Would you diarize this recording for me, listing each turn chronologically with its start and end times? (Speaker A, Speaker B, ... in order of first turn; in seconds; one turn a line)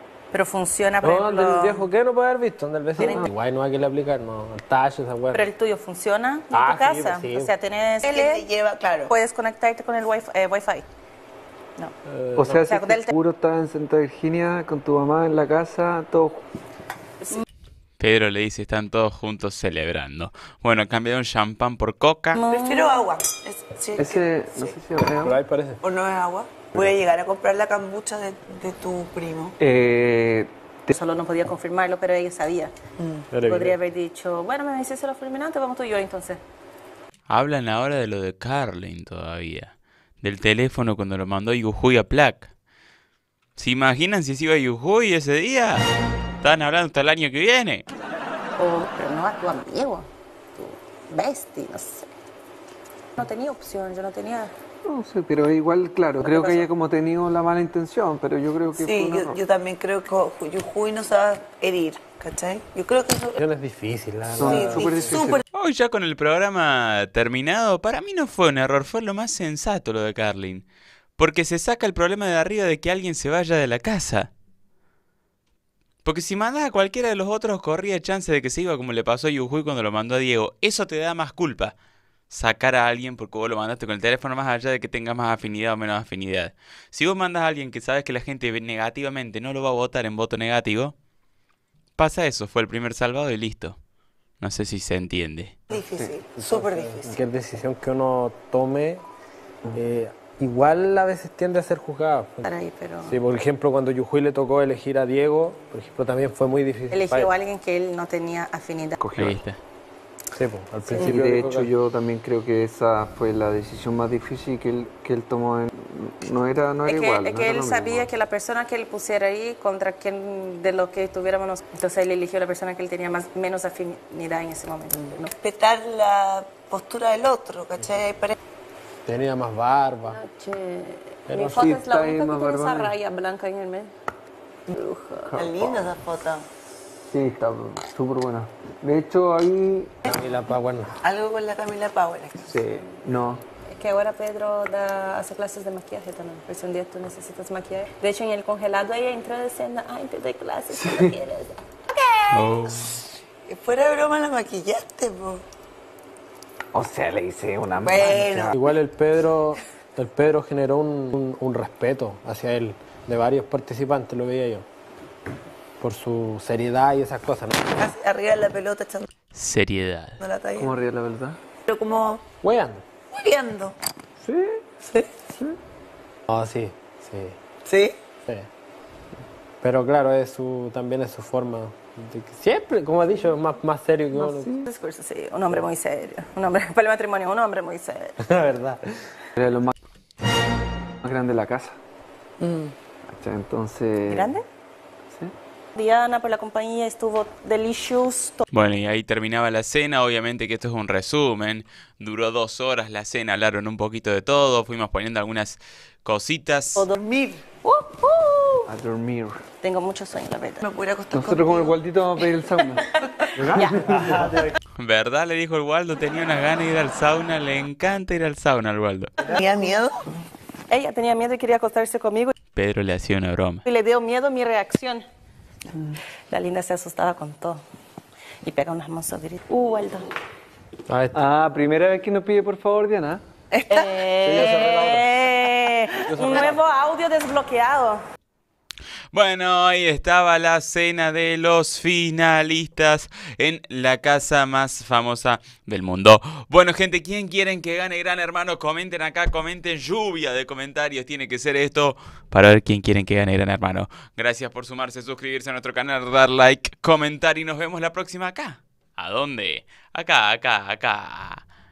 Speaker A: 0.3-1.9
Speaker B: 1.0-5.5
Speaker A: 3.0-3.3
Speaker A: 5.3-8.4
Speaker B: 6.5-7.5
Speaker C: 8.0-9.1
Speaker A: 9.1-10.8
Speaker B: 12.1-12.6
Speaker D: 12.4-16.4
Speaker A: 12.7-13.1
Speaker E: 18.0-22.4
Speaker A: 22.3-23.1
Speaker C: 22.5-24.8
Speaker D: 24.0-25.4
Speaker B: 25.2-25.8
Speaker C: 25.8-29.6
Speaker D: 29.6-30.9
Speaker A: 30.9-32.7
Speaker C: 33.0-33.3
Speaker B: 33.3-33.8
Speaker A: 33.4-36.4
Speaker E: 37.3-42.5
Speaker E: 43.6-45.9
Speaker E: 46.4-47.9
Speaker A: 48.6-52.1
Speaker A: 53.2-54.5
Speaker D: 54.9-59.4
Speaker A: 56.2-56.7
Speaker C: 58.7-63.4
Speaker B: 63.4-65.2
Speaker D: 64.3-65.4
Speaker C: 64.4-65.4
Speaker E: 65.5-70.7
Speaker E: 71.2-74.3
Speaker E: 76.0-81.8
Speaker E: 82.3-90.9
Speaker E: 92.0-93.8
Speaker E: 94.4-95.5
Speaker C: 95.7-97.2
Speaker B: 96.4-99.0
Speaker B: 99.7-102.5
Speaker A: 102.5-103.2
Speaker B: 103.0-107.3
Speaker A: 106.9-109.0
Speaker D: 109.0-109.4
Speaker E: 109.2-109.6
Speaker B: 110.3-111.7
Speaker A: 110.9-111.2
Speaker D: 111.0-118.1
Speaker A: 116.9-125.3
Speaker C: 125.4-128.4
Speaker B: 129.1-130.2
Speaker A: 130.1-133.9
Speaker B: 131.3-131.7
Speaker D: 131.5-133.0
Speaker A: 134.7-135.3
Speaker D: 135.3-135.9
Speaker C: 135.4-136.5
Speaker D: 137.1-140.0
Speaker B: 140.1-141.0
Speaker C: 141.0-142.6
Speaker D: 142.5-143.4
Speaker A: 143.7-151.6
Speaker D: 150.7-151.1
Speaker C: 152.0-152.7
Speaker E: 152.3-153.0
Speaker C: 153.5-155.4
Speaker D: 156.7-158.4
Speaker C: 157.8-158.6
Speaker B: 158.1-164.7
Speaker B: 165.8-167.7
Speaker C: 167.7-169.1
Speaker E: 169.3-170.2
Speaker C: 170.2-170.7
Speaker D: 170.6-171.4
Speaker C: 171.7-172.2
Speaker B: 172.4-172.8
Speaker C: 173.1-173.8
Speaker D: 174.2-174.6
Speaker C: 174.9-175.2
Speaker B: 176.3-177.4
Speaker C: 177.7-178.0
Speaker B: 179.6-184.5
Speaker D: 184.3-184.6
Speaker A: 184.6-188.2
Speaker B: 188.2-188.8
Speaker D: 189.4-189.7
Speaker D: 191.0-191.8
Speaker C: 192.4-192.7
Speaker D: 193.1-194.4
Speaker A: 194.1-194.4
Speaker A: 195.8-198.4
Speaker E: 198.5-206.9
Speaker C: 206.9-207.5
Speaker A: 207.6-208.7
Speaker D: 208.7-209.4
Speaker A: 209.6-210.6
Speaker C: 210.6-211.8
Speaker D: 211.1-212.9
Speaker A: 213.1-214.5
Speaker B: 213.4-214.6
Speaker E: 214.8-219.1
Speaker C: 219.2-220.2
Speaker A: 220.7-222.3
Speaker E: 222.5-223.6
Speaker A: 223.7-225.1
Speaker A: 226.3-227.6
Speaker A: 228.4-230.1
Speaker B: 230.9-231.2
Speaker D: 231.1-233.2
Speaker C: 233.5-234.6
Speaker A: 233.7-238.0
Speaker B: 234.2-235.1
Speaker C: 236.1-236.5
Speaker B: 236.1-236.6
Speaker E: 239.1-261.4